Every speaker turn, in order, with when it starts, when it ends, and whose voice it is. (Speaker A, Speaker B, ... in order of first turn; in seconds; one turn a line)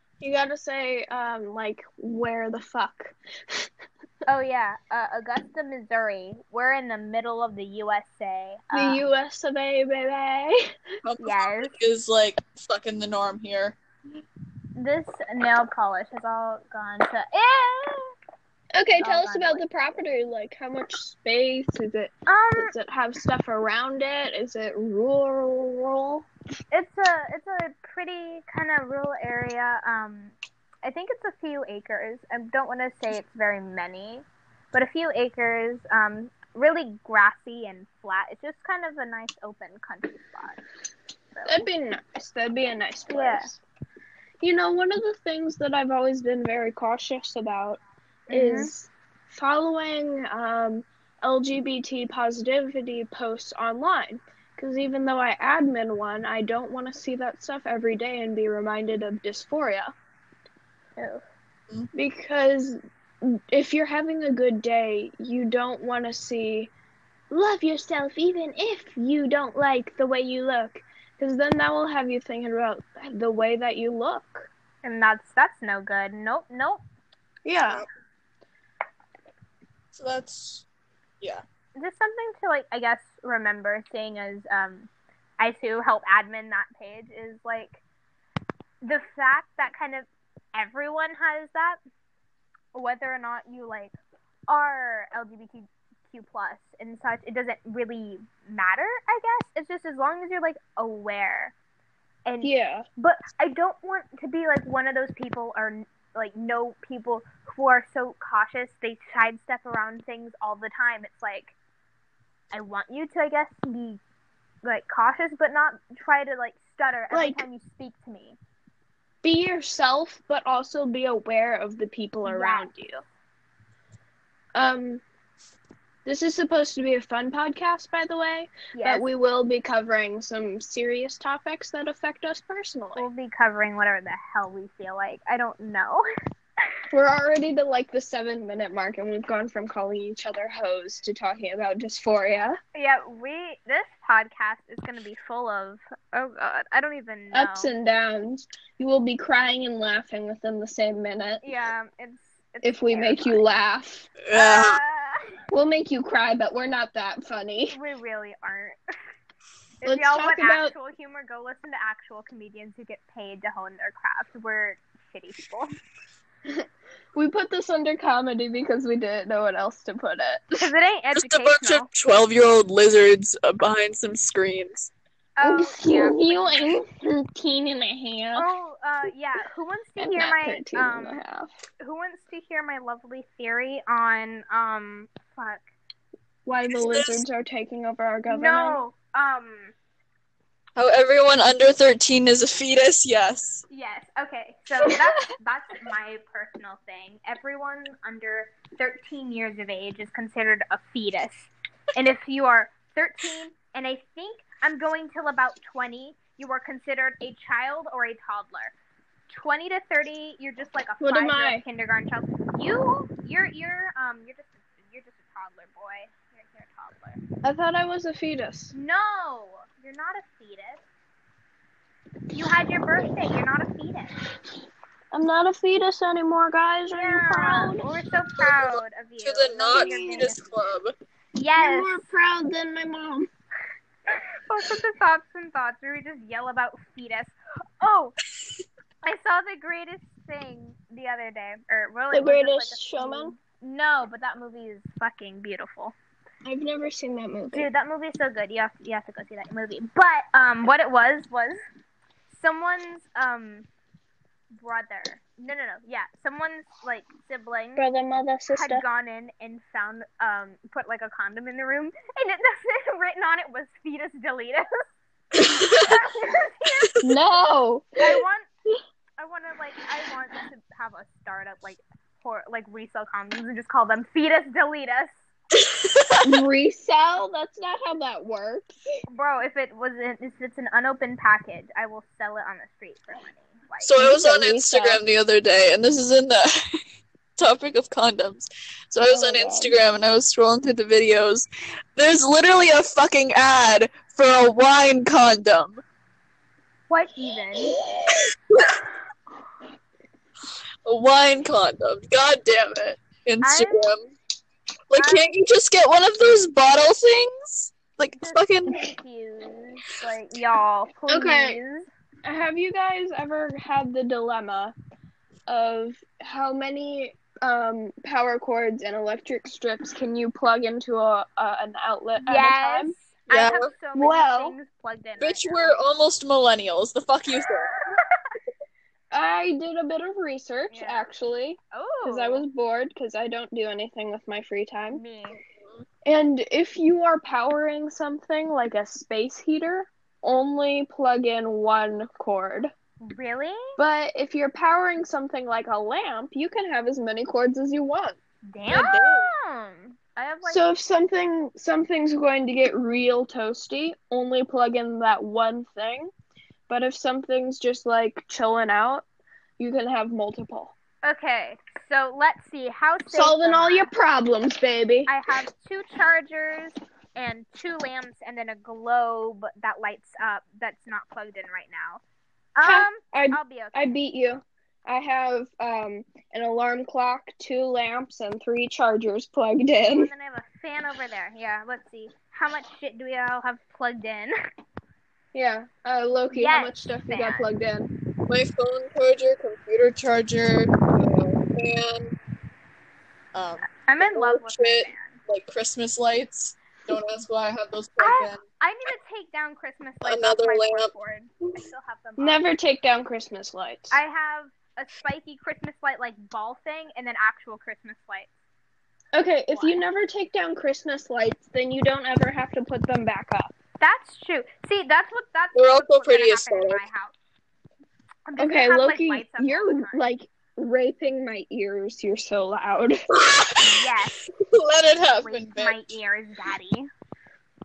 Speaker A: 0.2-3.7
Speaker B: 4.3-9.1
Speaker A: 8.7-10.6
Speaker C: 11.0-13.8
Speaker B: 11.2-11.7
Speaker B: 14.8-18.1
Speaker A: 18.8-26.3
Speaker B: 19.0-19.6
Speaker B: 22.3-22.7
Speaker B: 26.7-40.6
Speaker B: 41.4-41.7
Speaker A: 41.5-43.6
Speaker B: 43.1-43.5
Speaker A: 44.4-59.9
Speaker B: 48.3-48.7
Speaker A: 61.9-66.7
Speaker A: 67.3-74.5
Speaker B: 74.8-76.8
Speaker A: 77.5-77.8
Speaker C: 79.9-80.7
Speaker B: 81.8-87.8
Speaker B: 88.8-91.8
Speaker B: 92.7-93.9
Speaker B: 94.5-101.5
Speaker B: 102.3-111.5
Speaker A: 102.4-102.8
Speaker B: 112.5-114.0
Speaker B: 114.6-118.4
Speaker A: 117.1-117.5
Speaker A: 119.2-123.0
Speaker B: 122.2-122.7
Speaker A: 124.5-125.0
Speaker A: 126.0-133.1
Speaker B: 128.7-129.1
Speaker B: 132.9-136.1
Speaker A: 136.9-142.6
Speaker B: 142.8-147.7
Speaker A: 147.3-151.4
Speaker B: 151.4-153.4
Speaker A: 152.6-154.1
Speaker C: 154.2-154.8
Speaker B: 154.3-155.3
Speaker A: 155.5-157.8
Speaker B: 157.7-158.8
Speaker B: 159.8-165.7
Speaker A: 159.8-160.7
Speaker A: 166.5-170.7
Speaker B: 170.6-171.9
Speaker C: 171.2-174.9
Speaker B: 175.4-176.8
Speaker A: 175.4-178.5
Speaker B: 178.3-181.2
Speaker A: 180.0-181.5
Speaker B: 181.8-185.6
Speaker A: 186.5-188.8
Speaker C: 186.7-187.2
Speaker B: 188.2-189.7
Speaker C: 190.8-193.6
Speaker B: 193.7-208.7
Speaker B: 209.3-217.2
Speaker A: 211.0-211.6
Speaker A: 217.4-218.7
Speaker B: 218.7-220.8
Speaker B: 222.3-224.2
Speaker A: 225.1-228.5
Speaker B: 226.9-230.6
Speaker C: 229.2-230.9
Speaker A: 229.7-230.1
Speaker B: 231.3-232.1
Speaker A: 231.6-233.3
Speaker B: 234.5-238.2
Speaker B: 239.0-245.9
Speaker A: 242.1-243.4
Speaker A: 246.4-247.7
Speaker B: 247.5-251.6
Speaker B: 252.3-253.7
Speaker B: 254.6-257.9
Speaker A: 257.8-258.9
Speaker B: 258.5-264.9
Speaker C: 265.4-265.9
Speaker B: 265.4-267.0
Speaker A: 267.0-268.2
Speaker B: 268.0-268.5
Speaker B: 269.2-275.2
Speaker C: 275.6-276.4
Speaker A: 276.2-278.8
Speaker B: 279.1-284.1
Speaker C: 283.8-286.8
Speaker A: 284.0-285.0
Speaker C: 287.4-295.8
Speaker A: 289.1-289.7
Speaker B: 296.9-297.8
Speaker C: 298.1-298.8
Speaker C: 300.9-304.1
Speaker B: 303.4-303.9
Speaker C: 304.9-308.9
Speaker B: 304.9-305.3
Speaker B: 308.1-311.9
Speaker A: 311.1-311.6
Speaker A: 312.2-314.8
Speaker A: 315.5-322.9
Speaker B: 322.2-325.7
Speaker C: 323.3-323.7
Speaker A: 323.9-324.6
Speaker C: 325.2-327.8
Speaker B: 327.5-328.0
Speaker A: 329.1-335.0
Speaker B: 330.7-331.1
Speaker B: 331.7-332.4
Speaker B: 334.9-335.4
Speaker A: 336.1-342.7
Speaker B: 343.0-343.8
Speaker A: 343.8-348.2
Speaker B: 348.5-350.7
Speaker A: 350.4-356.1
Speaker A: 356.7-359.1
Speaker A: 359.6-360.7
Speaker B: 361.1-363.9
Speaker A: 363.1-365.1
Speaker B: 365.1-372.0
Speaker B: 372.6-373.9
Speaker A: 372.6-380.1
Speaker B: 379.8-384.3
Speaker A: 385.3-387.9
Speaker B: 386.3-387.5
Speaker C: 388.3-392.1
Speaker C: 393.3-398.4
Speaker B: 393.9-395.2
Speaker B: 398.0-402.4
Speaker C: 400.0-400.9
Speaker A: 402.2-404.0
Speaker B: 403.9-408.3
Speaker A: 409.1-413.5
Speaker B: 409.5-409.8
Speaker B: 413.8-417.1
Speaker C: 415.6-416.9
Speaker B: 418.3-420.1
Speaker A: 418.4-423.0
Speaker C: 423.1-425.9
Speaker B: 423.6-424.3
Speaker B: 425.1-426.9